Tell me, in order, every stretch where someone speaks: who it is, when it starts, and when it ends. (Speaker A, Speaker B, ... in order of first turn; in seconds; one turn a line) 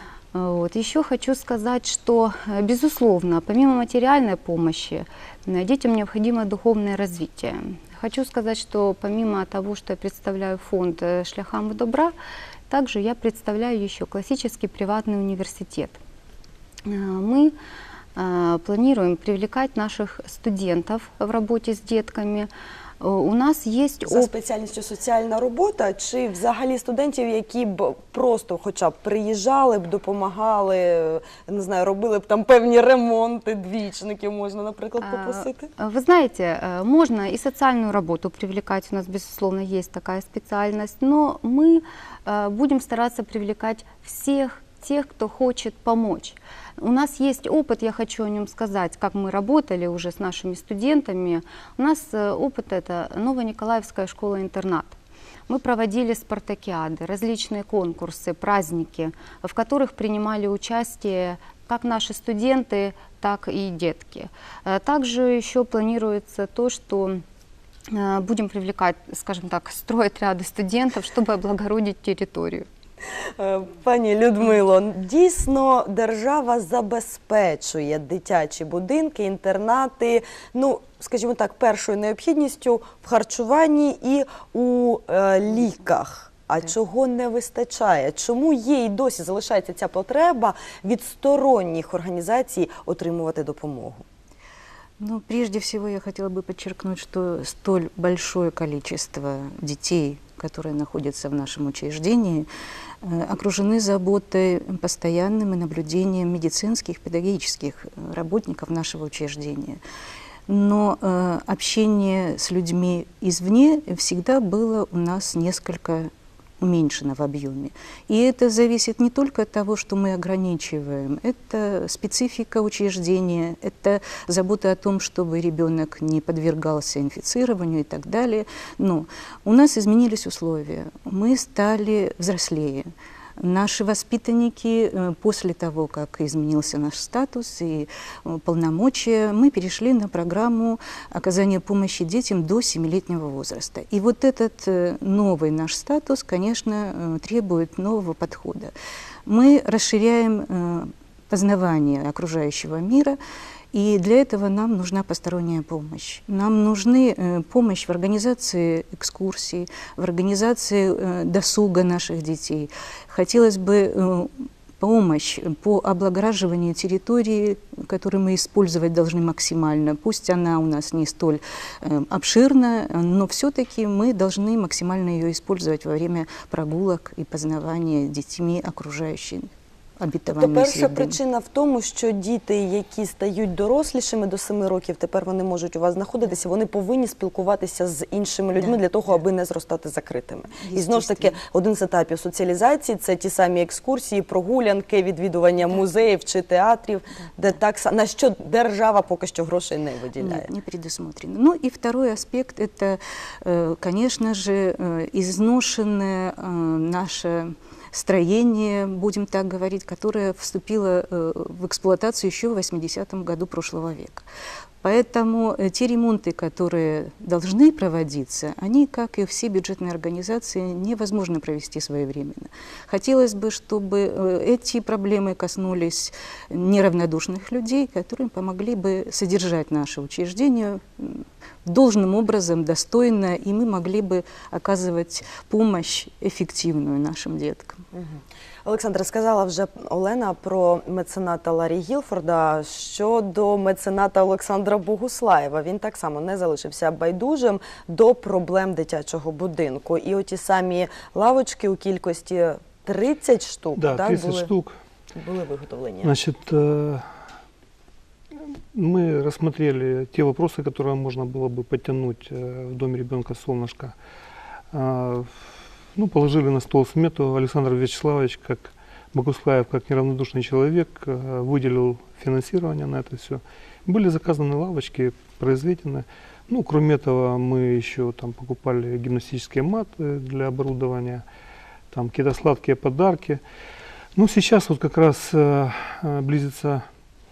Speaker A: 0.3-12.2
Speaker A: 12.7-16.0
Speaker A: 16.9-17.6
Speaker A: 18.2-22.5
Speaker A: 23.0-24.3
Speaker B: 24.1-35.7
Speaker A: 35.0-55.0
Speaker A: 55.5-67.2
Speaker A: 67.9-72.7
Speaker B: 73.4-94.0
Speaker C: 95.0-102.5
Speaker C: 103.0-109.8
Speaker C: 110.5-148.7
Speaker C: 149.3-153.2
Speaker C: 153.7-181.2
Speaker B: 180.3-200.5
Speaker C: 190.6-191.4
Speaker C: 200.2-214.3
Speaker C: 214.8-237.8
Speaker B: 237.9-254.5
Speaker D: 253.8-254.8
Speaker B: 255.2-256.1
Speaker D: 256.0-257.1
Speaker D: 258.7-263.9
Speaker D: 264.7-265.4
Speaker D: 266.0-281.2
Speaker D: 281.9-283.4
Speaker D: 284.2-286.9